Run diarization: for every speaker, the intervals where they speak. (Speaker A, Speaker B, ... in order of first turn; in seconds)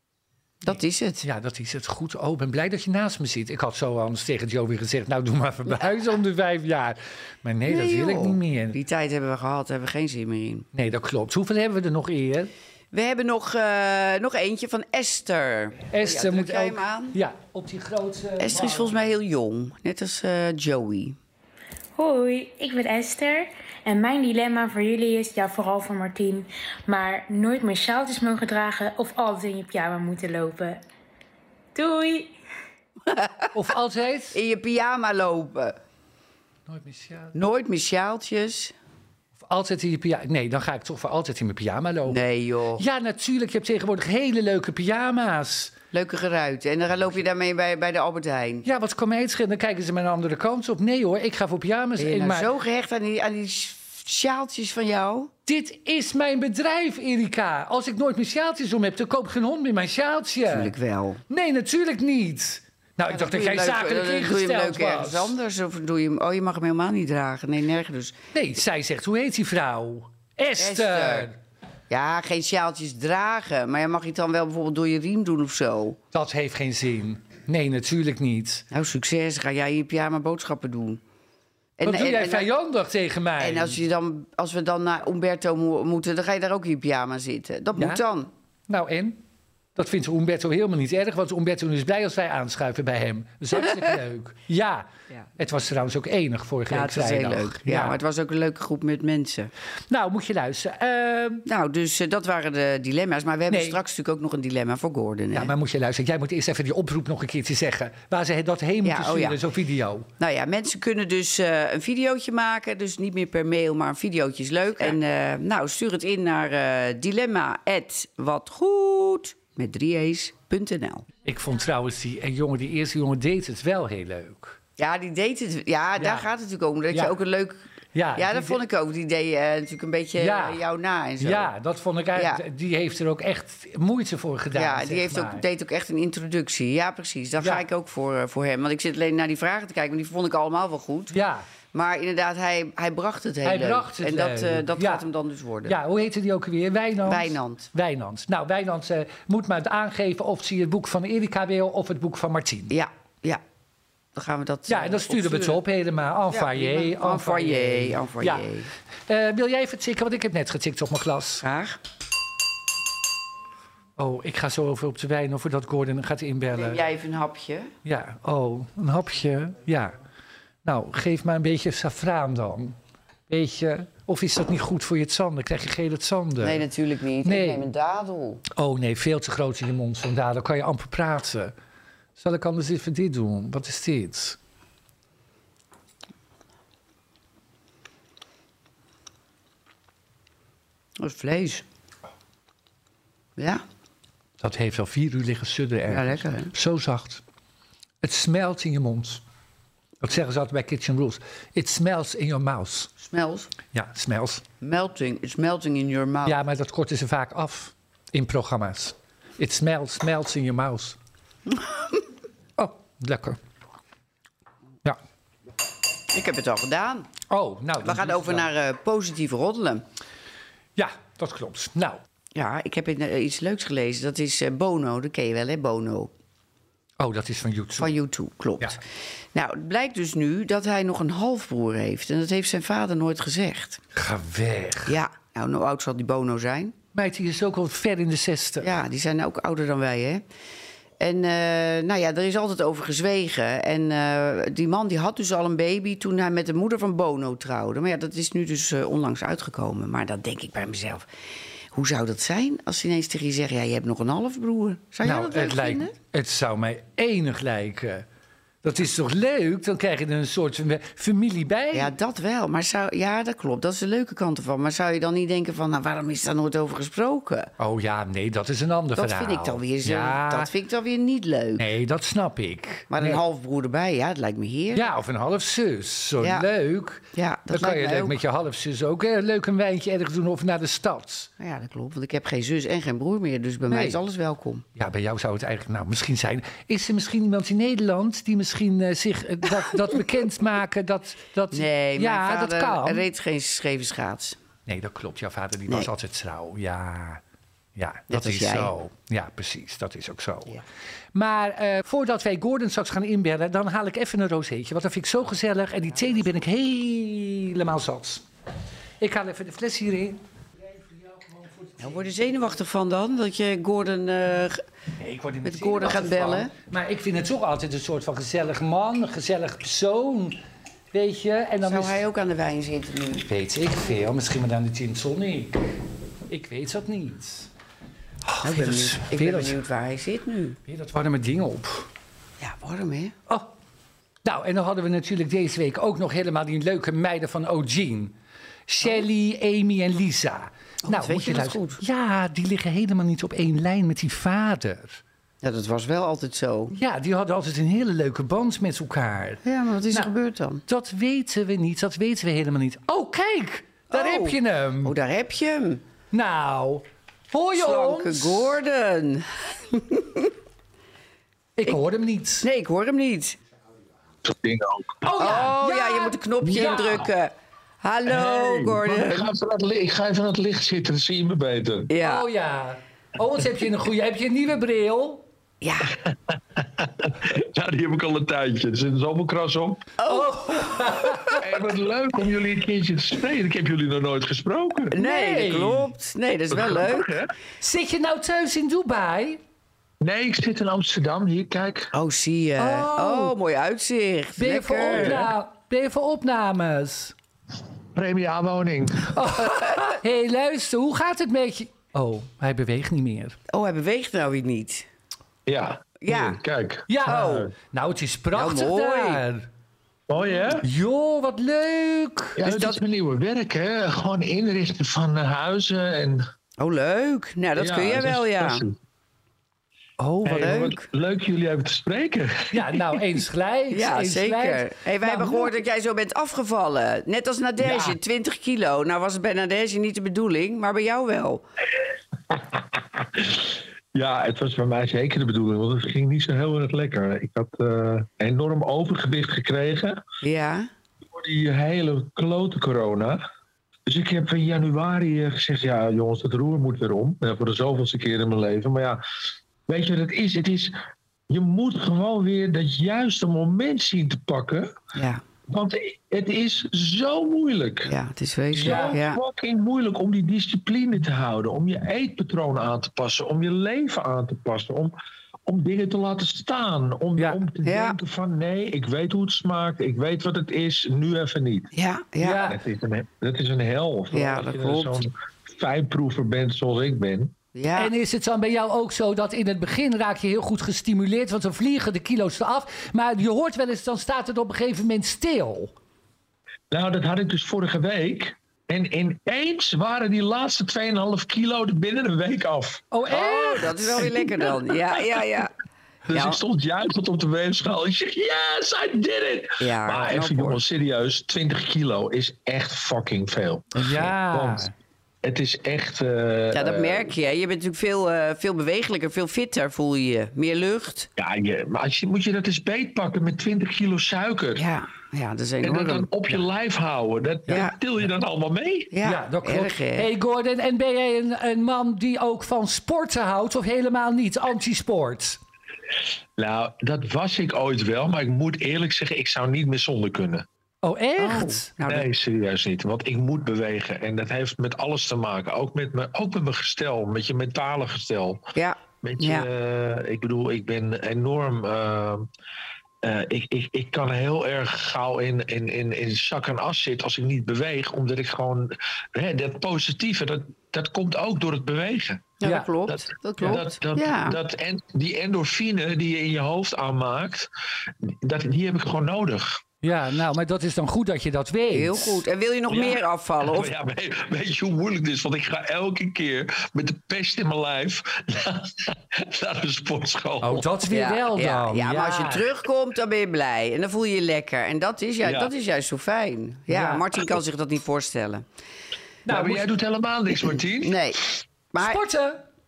Speaker A: 0.6-1.2, 7.7-10.7, 12.9-17.2, 18.4-21.2, 33.0-33.5, 34.3-35.8, 37.3-38.7, 42.0-42.8, 45.9-48.6, 52.0-55.3, 60.5-61.2, 63.1-68.2, 70.6-71.3, 71.9-76.0, 78.7-81.0, 81.8-82.5, 83.4-88.3, 96.7-99.5, 101.5-105.5, 108.8-109.4, 110.2-121.0, 124.8-131.5, 132.2-132.4, 134.5-141.2, 141.7-145.8, 147.0-147.7, 152.7-153.4, 154.1-155.6, 156.3-158.7, 161.4-161.8, 166.5-167.7, 176.4-178.4, 191.0-191.6, 193.4-193.6, 195.9-196.5, 203.0-203.5, 204.6-206.4, 211.5-212.0, 216.1-217.1, 217.8-219.8, 222.3-226.1, 227.8-228.8, 229.3-233.8, 234.9-236.7, 238.6-240.2, 241.0-251.1, 251.7-255.9, 261.7-267.5, 268.9-271.6, 272.9-274.9, 276.2-276.5, 277.1-278.2, 281.4-284.6, 291.5-294.4, 298.1-298.7, 311.8-314.6, 315.4-316.5, 321.6-323.3, 328.4-330.6, 332.4-333.1, 340.8-341.8, 345.4-346.7, 349.4-350.6, 353.9-355.8, 357.5-360.3, 362.4-363.4, 365.2-369.3, 371.9-372.2, 375.6-375.9, 380.0-381.2, 384.9-387.1, 391.9-395.3, 403.5-404.9, 406.0-406.4, 407.0-407.5, 408.3-409.2, 412.4-412.8, 416.6-418.6, 420.4-420.8, 423.7-431.4, 440.2-440.7, 454.9-455.2, 457.8-459.2, 467.6-468.0, 471.7-472.5, 474.1-475.0, 477.5-477.9, 493.1-495.5, 496.1-496.4, 499.6-500.6, 506.5-511.1, 514.5-516.1, 517.5-517.7, 518.9-520.1, 531.2-532.1, 538.5-539.5, 552.4-554.4, 561.7-563.7, 570.8-578.5, 580.8-582.0
Speaker B: 1.2-8.8, 10.7-12.5, 15.9-18.9, 33.5-34.4, 36.7-37.4, 39.4-42.2, 42.8-45.7, 48.6-52.5, 55.5-60.7, 61.3-65.3, 68.3-71.4, 76.1-78.6, 81.8-83.8, 87.8-88.0, 88.7-89.2, 89.8-98.0, 99.9-101.5, 103.5-103.8, 105.3-110.1, 121.2-124.6, 126.0-126.2, 127.9-128.6, 130.2-130.6, 131.2-135.4, 137.4-137.6, 141.1-141.4, 143.4-145.0, 145.7-152.7, 154.7-158.5, 159.1-161.4, 164.0-166.8, 167.8-169.9, 170.6-172.8, 173.3-176.6, 177.2-177.7, 178.5-181.5, 182.2-184.4, 194.4-197.2, 198.0-199.2, 200.0-202.9, 203.7-204.4, 206.2-211.0, 212.6-213.4, 217.3-218.5, 220.8-222.0, 227.0-227.9, 233.9-234.9, 236.9-238.7, 255.0-258.0, 258.6-261.9, 267.6-270.5, 271.6-273.2, 274.7-281.3, 283.7-284.0, 284.8-293.0, 294.7-297.2, 297.8-300.6, 301.1-308.2, 309.0-310.2, 310.9-312.0, 315.0-320.4, 320.9-322.0, 323.2-325.7, 326.3-327.5, 328.2-329.6, 330.7-331.9, 334.2-338.1, 338.7-345.0, 346.7-350.1, 350.7-354.9, 356.1-358.6, 361.6-362.5, 365.0-367.1, 372.0-375.2, 380.1-381.4, 384.9-385.9, 387.6-389.4, 392.6-393.3, 394.4-397.1, 399.1-403.4, 406.9-409.5, 410.6-412.4, 420.0-420.8, 422.5-425.5, 458.5-459.0, 472.2-472.6, 477.7-485.7, 492.9-494.2, 503.8-504.7, 519.0-525.4, 530.8-531.7, 552.4-552.7, 559.8-562.2, 570.4-572.5, 576.7-577.0, 579.2-579.7, 581.8-582.4
Speaker C: 21.9-30.8, 31.7-32.3
Speaker D: 364.2-365.1, 368.1-371.9, 375.9-379.9, 381.4-384.9, 386.5-387.3, 390.0-391.9, 394.9-395.3, 397.9-399.2, 405.4-407.5, 410.1-410.6, 412.4-416.2, 417.6-418.8, 420.2-422.8, 433.0-440.0, 441.1-443.2, 443.9-449.0, 449.7-450.7, 451.3-454.8, 455.5-457.9, 458.6-464.9, 465.4-471.7, 472.4-477.4, 486.7-492.8, 496.1-504.7, 505.2-507.1, 511.2-514.6, 515.6-518.9, 526.4-530.4, 531.8-538.5, 539.0-542.3, 543.0-557.5, 558.0-559.6, 562.7-570.7, 575.2-575.5, 579.3-581.0